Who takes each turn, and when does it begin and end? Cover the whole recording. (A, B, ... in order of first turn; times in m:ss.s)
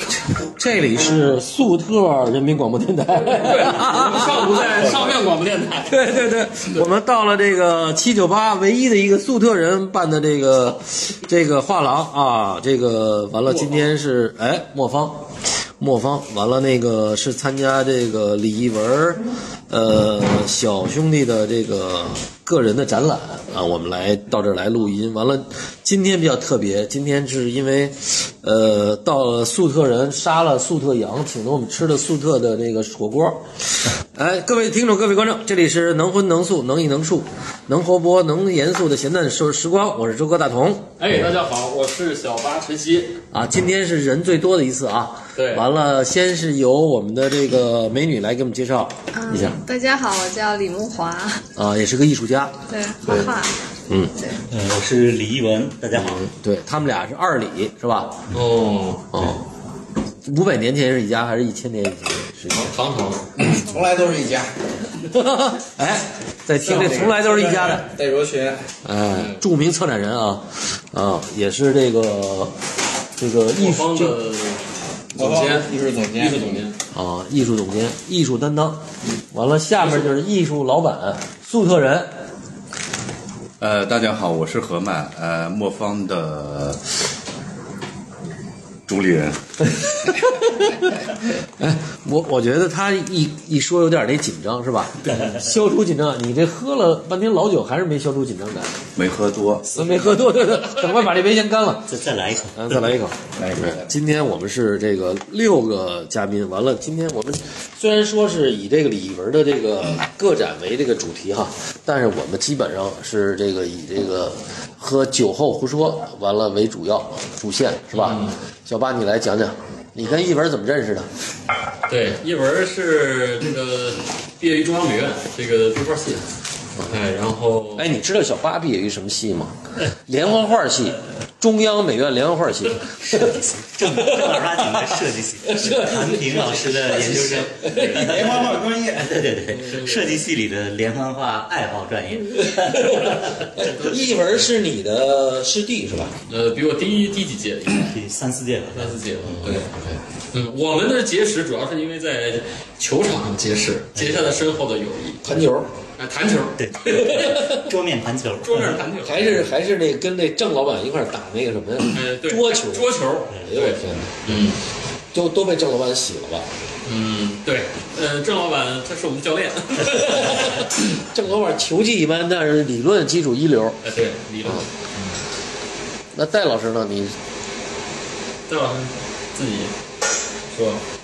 0:00.4-0:05.0 A
0:03.3-0:06.0 B
0:05.9-0:33.4 A
0:34.0-0:41.0 A
0:41.0-0:43.2 B
0:43.3-0:49.6 A
0:45.3-0:45.6 B
0:49.1-0:51.4 C
0:51.6-0:53.3 A
0:52.7-0:53.6 C
0:53.9-0:54.2 A
0:54.5-0:56.2 D
0:55.9-0:58.2 A
0:58.3-0:59.4 B
0:59.1-0:59.4 A
1:00.2-1:02.8 A
1:02.6-1:03.4 B
1:03.3-1:04.6 E
1:05.1-1:07.9 A
1:06.6-1:08.6 E
1:08.8-1:12.6 A
1:13.2-1:14.2 A
1:13.5-1:16.8 B
1:15.2-1:16.6 E
1:16.9-1:22.2 A
1:19.8-1:20.1 B
1:23.6-1:26.9 F
1:28.9-1:30.1 F
1:30.3-1:30.9 A
1:31.6-1:38.8 A
1:35.1-1:35.4 D
1:39.0-1:40.1 F
1:39.7-1:41.9 A
1:41.9-1:43.0 D
1:42.5-2:01.1 A
1:43.4-1:43.9 E
1:57.9-1:58.4 B
2:01.9-2:06.3 B
2:06.8-2:07.9 B
2:07.8-2:13.4 A
2:13.0-2:23.7 D
2:13.9-2:17.9 A
2:16.9-2:19.2 E
2:18.0-2:18.3 B
2:19.5-2:20.3 B
2:22.4-2:26.1 A
2:23.5-2:24.5 B
2:26.2-2:27.9 B
2:27.8-2:29.0 D
2:28.7-2:29.7 B
2:29.2-2:30.0 A
2:30.3-2:37.2 B
2:34.0-2:34.3 D
2:35.2-2:35.7 A
2:36.6-2:38.8 D
2:36.9-2:37.7 A
2:38.4-2:39.5 B
2:39.0-2:44.4 A
2:41.9-2:44.6 B
2:45.1-2:46.5 A
2:46.8-2:50.7 B
2:49.9-2:53.8 A
2:53.8-2:55.2 B
2:56.1-2:57.2 A
2:58.5-2:59.8 B
3:00.5-3:00.8 B